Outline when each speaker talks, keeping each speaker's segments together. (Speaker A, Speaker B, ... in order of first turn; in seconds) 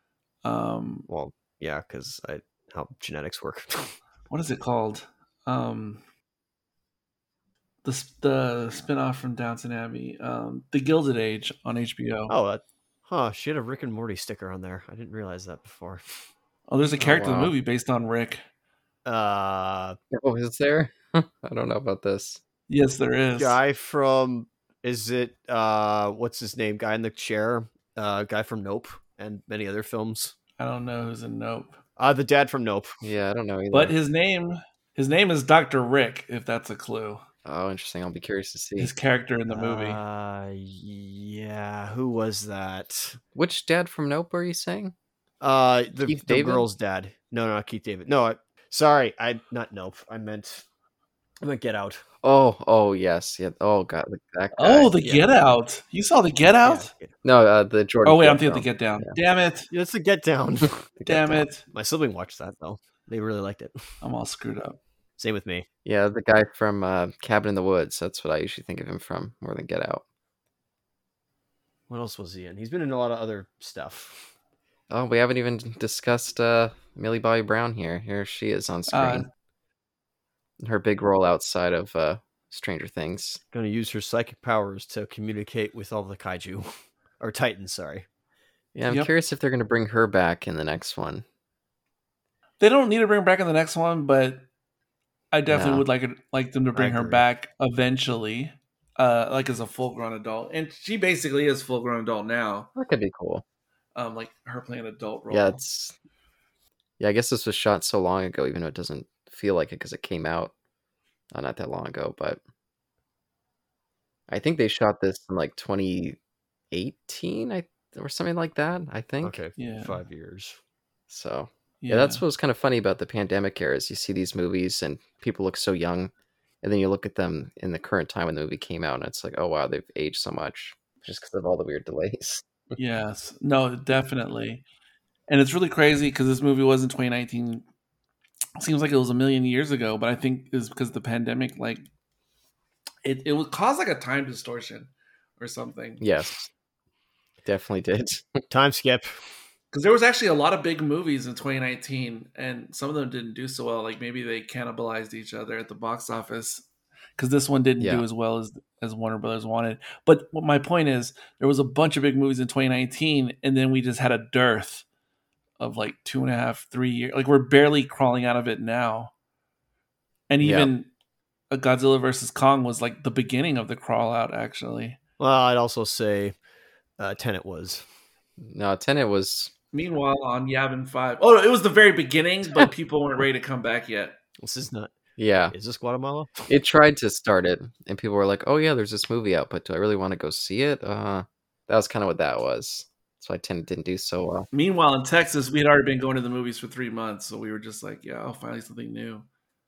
Speaker A: 0.4-1.1, 4.3-6.0, 7.8-12.3, 16.7-18.4, 22.7-23.6, 30.6-31.8, 33.7-37.2, 38.8-40.0, 54.6-56.9, 58.0-59.7, 61.1-61.6, 64.0-64.8, 78.9-79.3, 88.9-89.1, 92.6-94.5, 95.3-102.7, 103.9-105.6, 119.6-120.0, 121.8-122.2, 132.8-134.6, 135.3-137.6, 138.6-141.9, 143.0-146.0, 149.7-156.7, 157.2-164.8, 165.6-169.1, 170.3-170.9, 171.5-175.0, 179.7-184.2, 194.5-199.2
Speaker B: 1.1-4.0, 12.3-16.0, 19.0-20.0, 23.4-30.3, 32.0-33.0, 39.5-43.2, 45.4-50.6, 51.4-52.0, 56.6-57.1, 59.7-60.8, 61.7-63.9, 65.2-65.7, 71.9-74.3, 83.5-86.7, 87.2-88.1, 96.8-97.2, 119.2-120.6, 148.5-149.1, 175.2-176.3, 177.0-177.8, 184.4-184.9, 185.5-186.5
Speaker C: 17.0-17.5, 20.1-22.4, 33.0-33.9, 37.4-38.9, 43.3-44.9, 46.0-46.7, 52.2-54.9, 57.2-59.1, 61.0-61.5, 65.8-70.0, 74.9-79.2, 80.6-83.4, 88.8-91.2, 95.5-95.8, 102.8-103.4, 105.3-105.9, 107.0-110.5, 111.3-112.4, 114.3-116.2, 116.7-119.4, 121.1-132.8, 146.0-146.5, 147.4-148.4, 170.4-170.7, 178.4-179.5, 185.2-185.5, 186.5-194.5